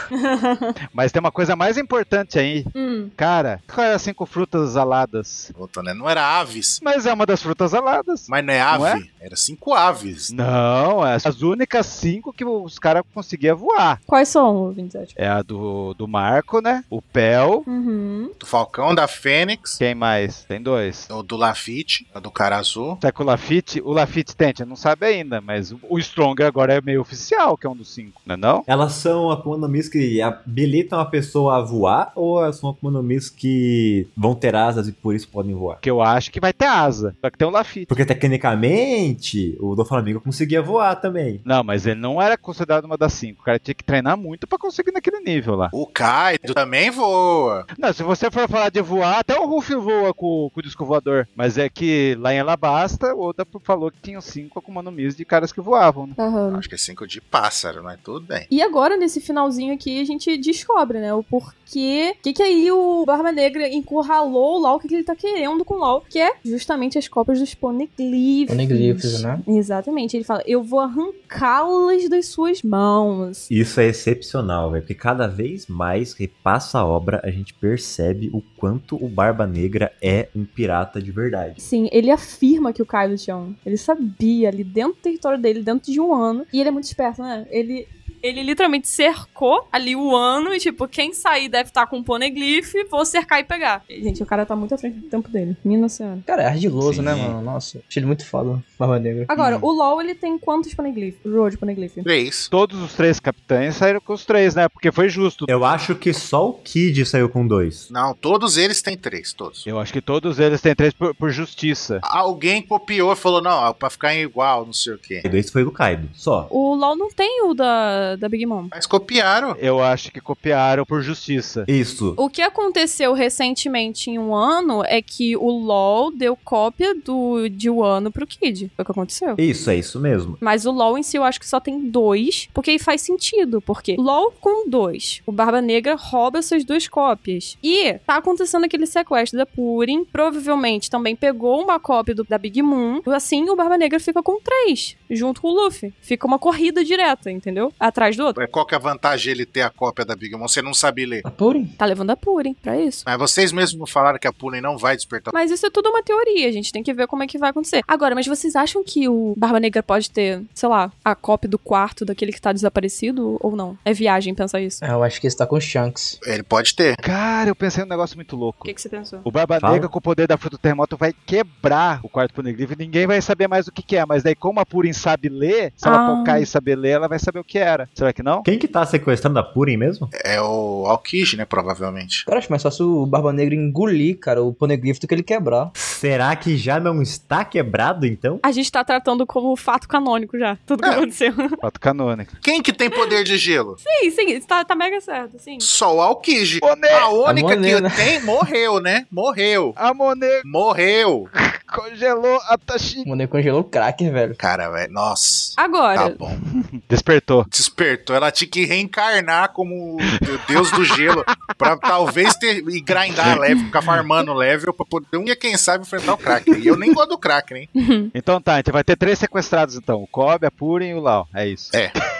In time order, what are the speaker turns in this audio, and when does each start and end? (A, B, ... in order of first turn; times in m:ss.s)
0:00.1-0:00.7 A
0:00.9-0:05.5 B
0:02.7-0:03.1 A
0:05.5-0:06.8 C
0:06.8-0:09.0 B
0:08.3-0:10.3 C
0:10.3-0:14.0 B
0:14.1-0:15.1 A
0:15.2-0:17.6 B
0:17.7-0:18.3 A
0:18.4-0:19.8 C
0:19.8-0:21.1 B
0:21.1-0:23.0 C
0:23.0-0:28.6 B
0:28.7-0:35.8 D
0:35.8-0:37.9 B
0:37.9-0:41.4 D
0:41.4-0:45.7 B
0:45.7-0:47.7 C
0:47.8-0:56.2 B
0:56.2-0:56.6 A
0:56.5-0:58.5 C
0:58.5-1:13.5 A
1:08.5-1:09.4 E
1:13.5-1:21.6 D
1:21.6-1:36.2 A
1:36.3-1:39.3 E
1:36.8-1:37.3 B
1:39.3-1:42.0 A
1:39.4-1:39.6 B
1:42.0-1:42.5 C
1:42.5-1:45.5 B
1:45.5-1:47.9 D
1:47.9-1:49.7 C
1:49.6-1:52.0 B
1:52.0-1:55.2 C
1:55.2-1:56.5 D
1:56.5-1:58.7 A
1:58.7-1:59.6 C
1:59.6-2:01.7 B
2:01.7-2:02.2 D
2:02.2-2:09.4 A
2:09.4-2:10.4 D
2:10.4-2:28.4 A
2:28.4-2:31.2 C
2:31.2-2:31.7 E
2:31.8-2:33.0 A
2:33.0-2:35.3 C
2:35.3-2:44.8 A
2:44.8-2:46.2 E
2:46.2-2:47.0 C
2:47.0-2:58.4 B
2:48.6-2:49.2 A
2:49.6-2:49.9 D
2:55.8-2:56.5 A
2:58.4-3:00.1 D
3:00.1-3:02.3 C
3:02.3-3:05.7 E
3:05.8-3:08.4 D
3:08.4-3:11.6 A
3:11.6-3:12.4 B
3:12.4-3:13.8 C
3:13.8-3:15.7 A
3:15.6-3:19.8 C
3:16.6-3:17.1 B
3:17.2-3:18.3 E
3:19.8-3:20.4 B
3:20.4-3:21.3 C
3:21.4-3:23.1 B
3:23.0-3:24.4 E
3:24.4-3:26.4 C
3:25.6-3:26.2 A
3:26.6-3:27.5 B
3:27.5-3:37.7 C
3:30.1-3:31.5 B
3:37.8-3:38.1 A
3:38.1-3:41.8 B